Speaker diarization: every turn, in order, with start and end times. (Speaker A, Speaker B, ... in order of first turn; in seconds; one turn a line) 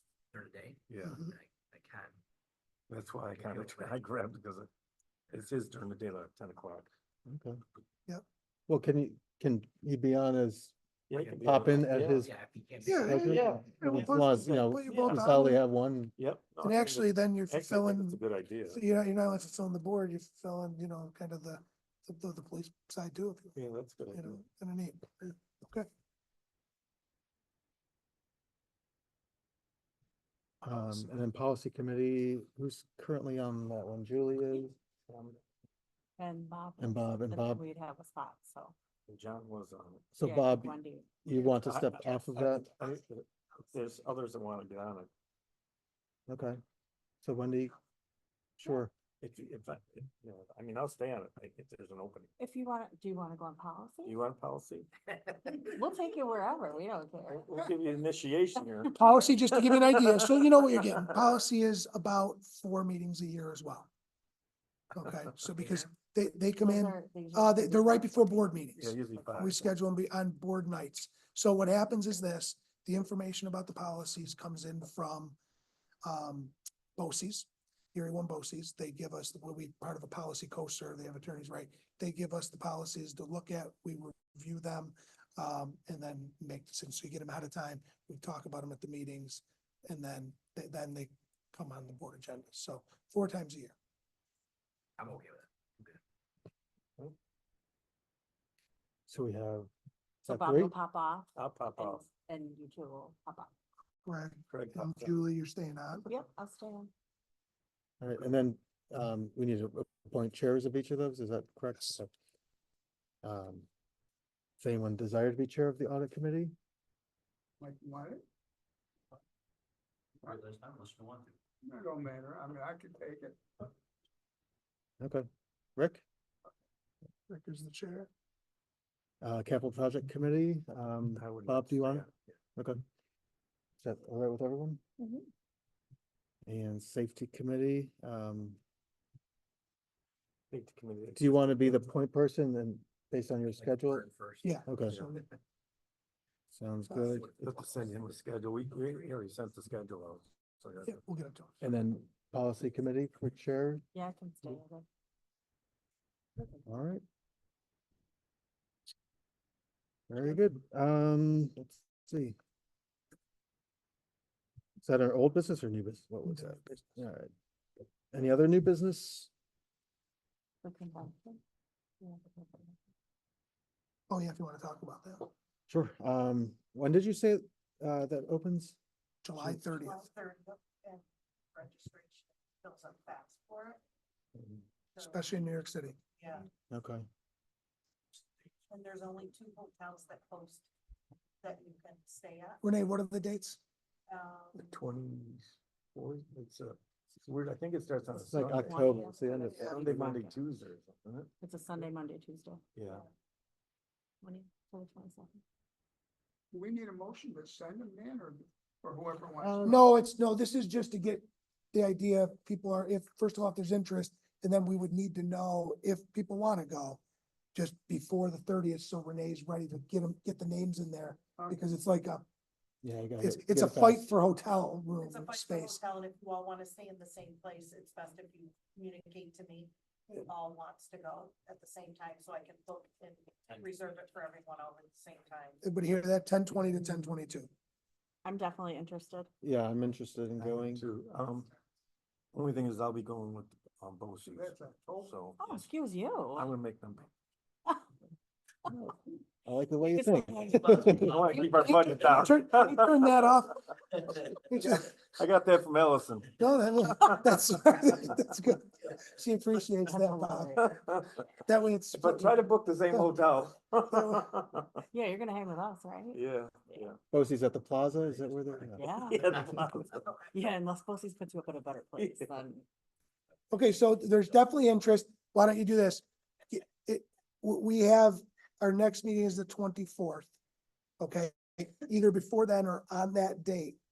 Speaker A: 0.3-2.2
Speaker B: 0.9-1.3
Speaker C: 1.1-1.3
Speaker B: 2.9-4.7
Speaker A: 3.3-4.0
Speaker B: 5.3-6.9
Speaker D: 7.3-7.6
Speaker D: 8.7-10.7
Speaker B: 11.1-12.2
Speaker A: 11.2-13.4
Speaker D: 11.4-12.3
Speaker C: 12.8-15.6
Speaker D: 13.0-16.2
Speaker B: 13.2-15.3
Speaker B: 16.2-18.8
Speaker C: 16.6-23.6
Speaker B: 23.6-24.4
Speaker C: 24.1-25.9
Speaker D: 30.6-34.7
Speaker B: 35.1-35.4
Speaker E: 36.2-38.8
Speaker D: 36.8-37.6
Speaker B: 39.1-40.1
Speaker D: 40.2-42.7
Speaker E: 40.2-41.2
Speaker B: 41.3-45.1
Speaker D: 46.3-46.6
Speaker D: 47.2-47.8
Speaker D: 48.6-48.9
Speaker B: 49.2-52.3
Speaker E: 52.4-54.2
Speaker B: 54.0-54.9
Speaker E: 55.4-57.5
Speaker B: 57.4-59.0
Speaker C: 59.0-63.9
Speaker B: 59.7-60.4
Speaker C: 64.9-75.4
Speaker E: 66.6-68.5
Speaker B: 68.8-69.6
Speaker E: 69.2-69.7
Speaker C: 76.0-93.7
Speaker A: 95.0-95.4
Speaker D: 99.1-99.7
Speaker D: 100.2-100.7
Speaker E: 100.3-103.5
Speaker B: 101.3-102.0
Speaker C: 104.0-106.0
Speaker B: 104.5-105.1
Speaker E: 106.0-106.9
Speaker D: 108.0-112.1
Speaker D: 113.2-113.7
Speaker D: 114.6-116.5
Speaker F: 117.6-118.2
Speaker A: 120.3-121.3
Speaker F: 121.6-123.7
Speaker D: 125.0-126.0
Speaker C: 127.3-128.1
Speaker D: 129.2-132.8
Speaker B: 131.1-132.2
Speaker D: 133.8-134.8
Speaker E: 135.0-135.3
Speaker D: 136.4-138.6
Speaker B: 140.5-141.9
Speaker D: 141.2-144.1
Speaker A: 143.5-144.6
Speaker D: 144.7-145.0
Speaker B: 144.9-145.2
Speaker D: 146.5-147.3
Speaker B: 147.4-151.0
Speaker C: 150.8-151.6
Speaker D: 151.6-153.8
Speaker E: 153.9-154.8
Speaker D: 156.7-157.0
Speaker D: 160.1-162.3
Speaker D: 164.8-167.3
Speaker D: 168.1-169.3
Speaker E: 170.6-171.4
Speaker E: 172.0-172.8
Speaker C: 174.1-175.3
Speaker D: 175.7-178.8
Speaker C: 179.2-180.1
Speaker G: 179.6-181.0
Speaker G: 181.5-183.8
Speaker G: 184.9-185.3
Speaker C: 185.0-186.0
Speaker G: 186.2-186.5
Speaker D: 186.7-187.0
Speaker G: 188.7-190.7
Speaker G: 191.4-192.6
Speaker C: 192.6-193.6
Speaker G: 194.1-194.8
Speaker B: 194.6-201.3
Speaker D: 198.2-200.1
Speaker E: 198.4-200.3
Speaker G: 198.6-199.1
Speaker E: 201.4-202.6
Speaker B: 202.8-203.0
Speaker G: 202.8-203.1
Speaker E: 204.2-205.4
Speaker F: 206.5-209.7
Speaker D: 209.4-209.8
Speaker C: 209.6-217.0
Speaker C: 217.5-222.2
Speaker F: 221.4-221.7
Speaker D: 222.8-224.0
Speaker C: 223.2-225.8
Speaker G: 225.0-235.6
Speaker C: 235.6-237.5
Speaker E: 238.2-239.3
Speaker D: 239.4-240.8
Speaker B: 240.4-241.5
Speaker B: 242.3-245.6
Speaker F: 244.2-245.2
Speaker E: 245.4-246.5
Speaker B: 246.3-247.1
Speaker D: 249.4-251.2
Speaker E: 249.9-251.7
Speaker B: 250.8-253.1
Speaker C: 252.0-255.0
Speaker B: 254.7-256.4
Speaker C: 256.4-260.6
Speaker E: 259.9-260.7
Speaker B: 260.6-261.2
Speaker C: 261.5-262.4
Speaker B: 261.9-264.8
Speaker C: 263.9-264.2
Speaker E: 264.9-266.9
Speaker B: 266.1-267.0
Speaker D: 267.1-268.9
Speaker E: 268.7-272.6
Speaker B: 269.1-270.1
Speaker B: 272.0-272.3
Speaker C: 273.5-280.3
Speaker C: 281.0-283.8